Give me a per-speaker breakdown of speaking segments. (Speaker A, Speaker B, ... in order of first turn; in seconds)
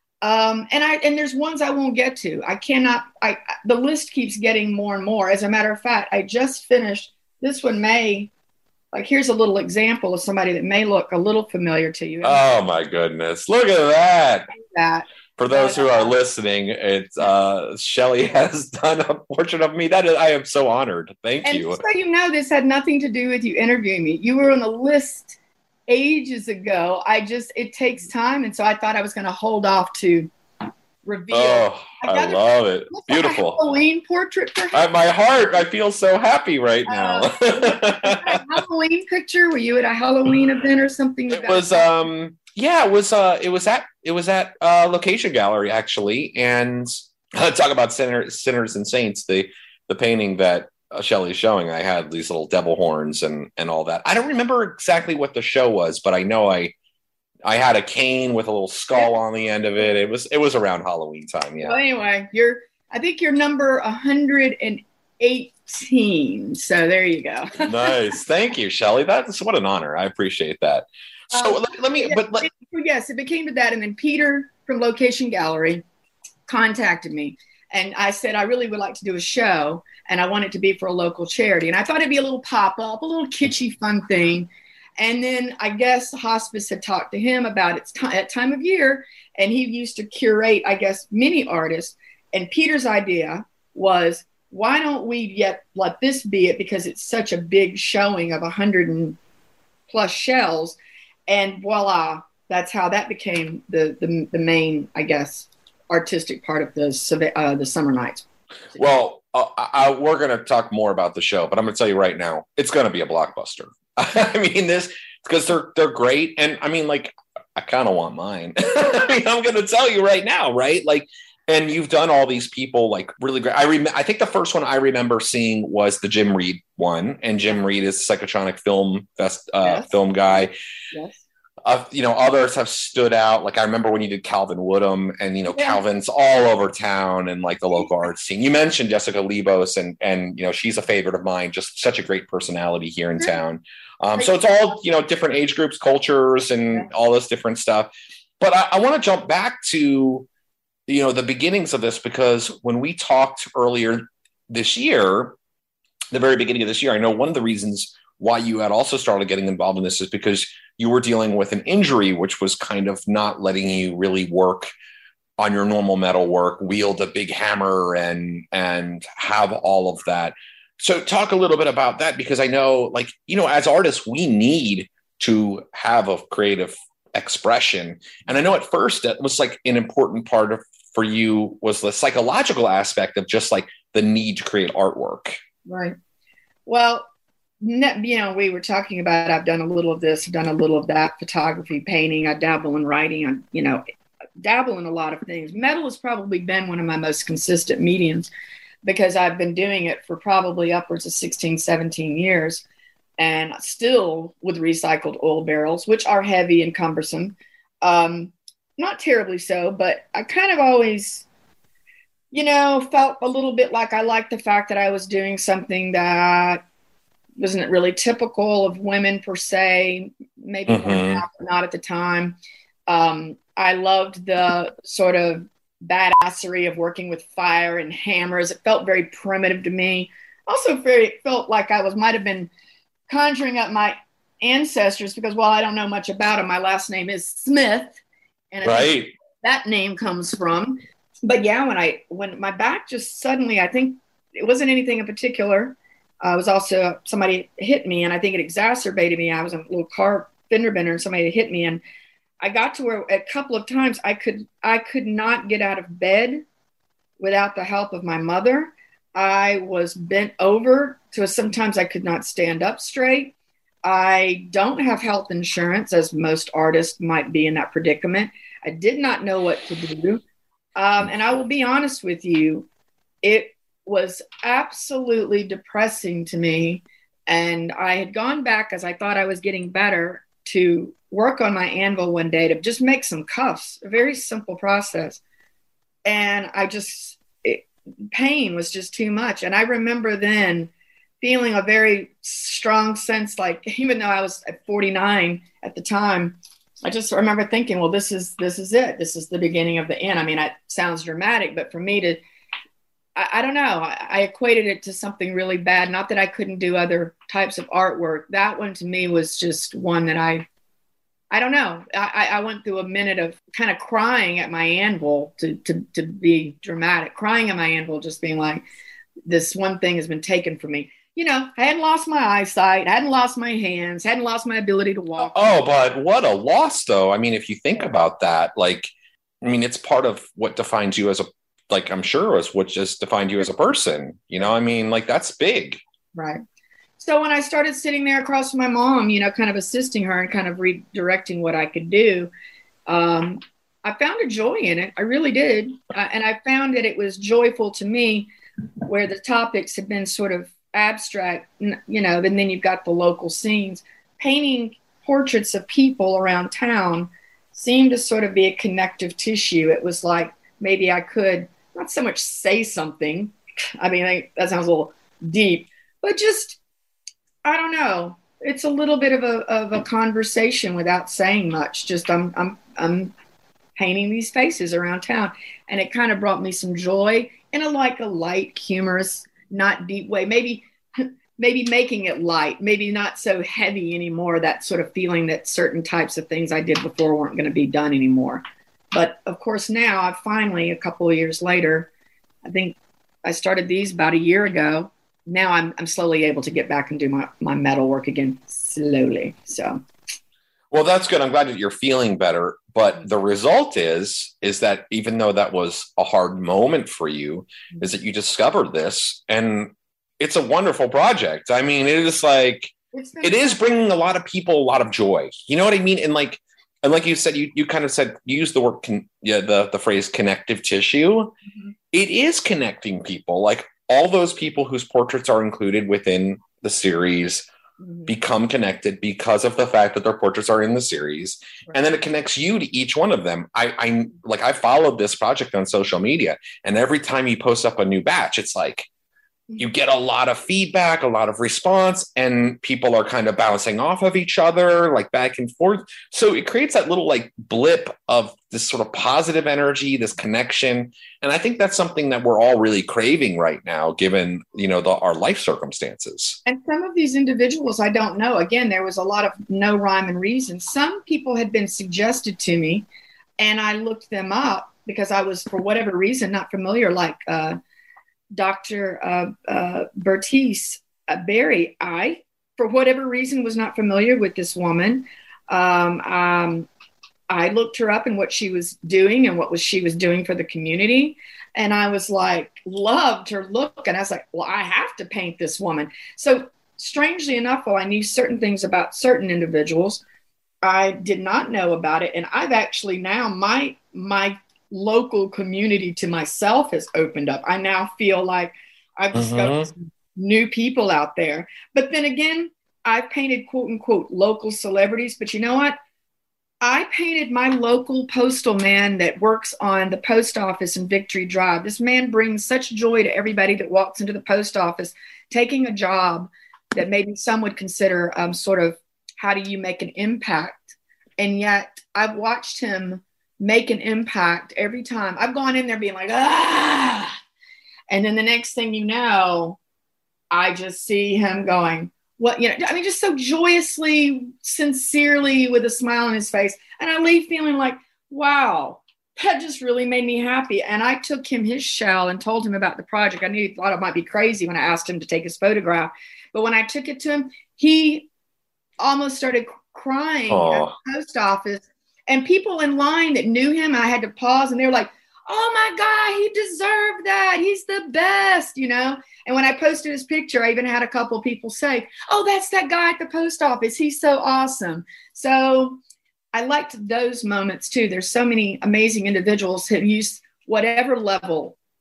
Speaker A: 0.2-8.3, 8.9-12.4, 14.5-16.1, 21.4-30.3, 31.1-34.9, 36.9-41.9, 61.6-67.9, 71.3-75.8, 76.5-99.2, 99.9-108.8, 129.6-131.2, 135.6-135.8, 185.7-185.9, 186.7-187.1, 187.6-193.8, 194.4-198.3, 198.8-202.6, 203.2-211.2, 212.3-216.6, 217.4-232.5, 233.1-238.0, 238.5-251.8, 252.4-256.4, 257.2-270.2, 270.8-272.7, 273.2-285.2, 286.1-302.2, 303.1-310.4, 311.3-318.6, 319.3-325.6, 336.1-336.4, 337.0-342.3, 342.9-348.3, 348.9-366.6, 367.4-373.1, 373.8-391.9, 392.4-399.8, 412.9-413.6, 427.8-428.1, 456.4-462.9, 463.4-467.6, 468.4-476.7, 477.3-490.0, 490.6-505.8, 506.6-527.1, 527.9-529.6, 530.3-548.1, 548.8-565.8, 566.3-571.6
Speaker B: 12.2-14.5, 15.4-21.8, 31.3-33.6, 34.7-38.4, 41.3-56.8, 57.5-61.8, 67.6-72.5, 108.8-130.5, 131.6-147.9, 148.4-150.3, 150.9-155.4, 156.1-164.7, 165.4-185.4, 220.7-221.2, 238.6-239.1, 325.3-328.9, 329.4-335.8, 400.7-421.4, 421.9-427.5, 428.1-438.9, 439.6-456.4, 499.1-499.7, 550.3-550.8